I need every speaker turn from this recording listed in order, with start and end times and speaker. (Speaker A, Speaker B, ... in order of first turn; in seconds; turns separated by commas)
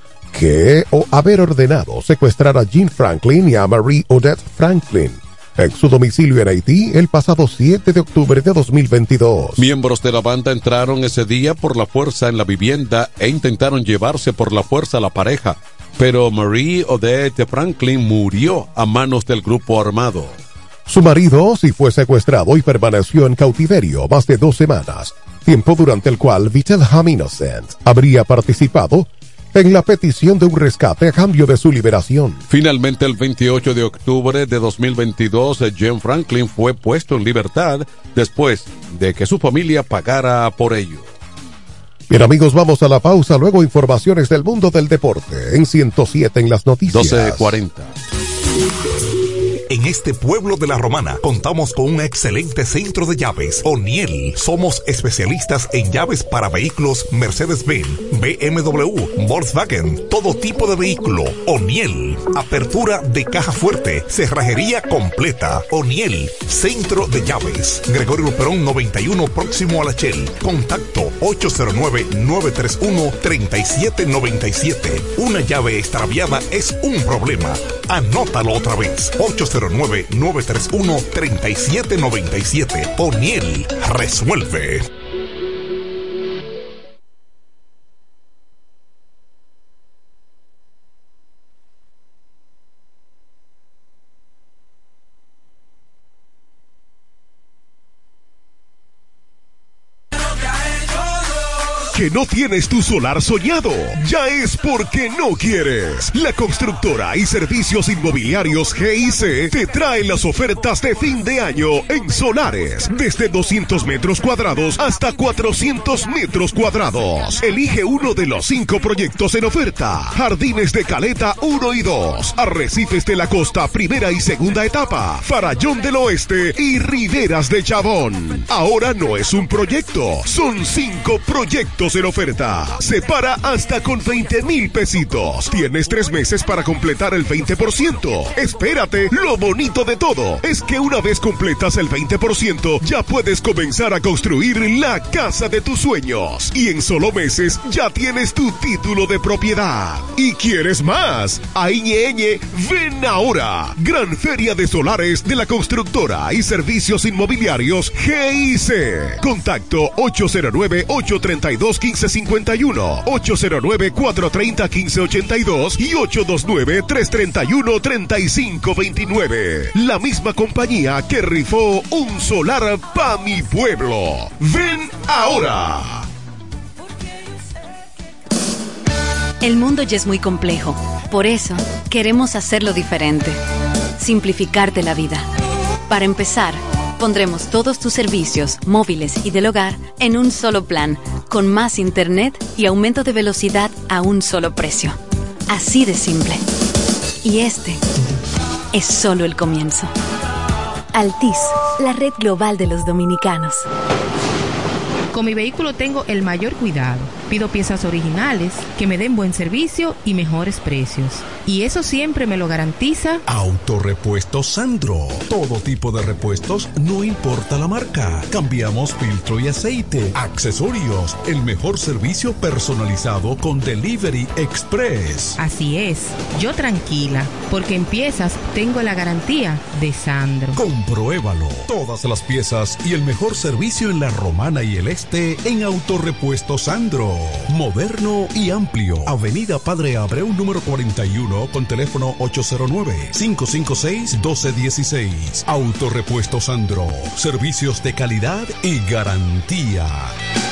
Speaker A: 0.3-9.6, Speaker B: 9.6-20.4, Speaker A: 20.9-32.4, Speaker B: 32.5-41.1, Speaker A: 42.1-47.5, Speaker B: 46.9-47.9, Speaker C: 49.7-84.8, Speaker D: 101.9-176.1, Speaker E: 179.4-183.4, Speaker E: 184.0-185.2, Speaker E: 185.9-195.0, Speaker E: 195.5-196.4, Speaker E: 197.2-197.8, Speaker E: 198.7-199.9, Speaker E: 200.9-203.7, Speaker F: 205.1-213.2, Speaker G: 213.3-225.4, Speaker F: 225.4-230.6, Speaker G: 230.5-250.1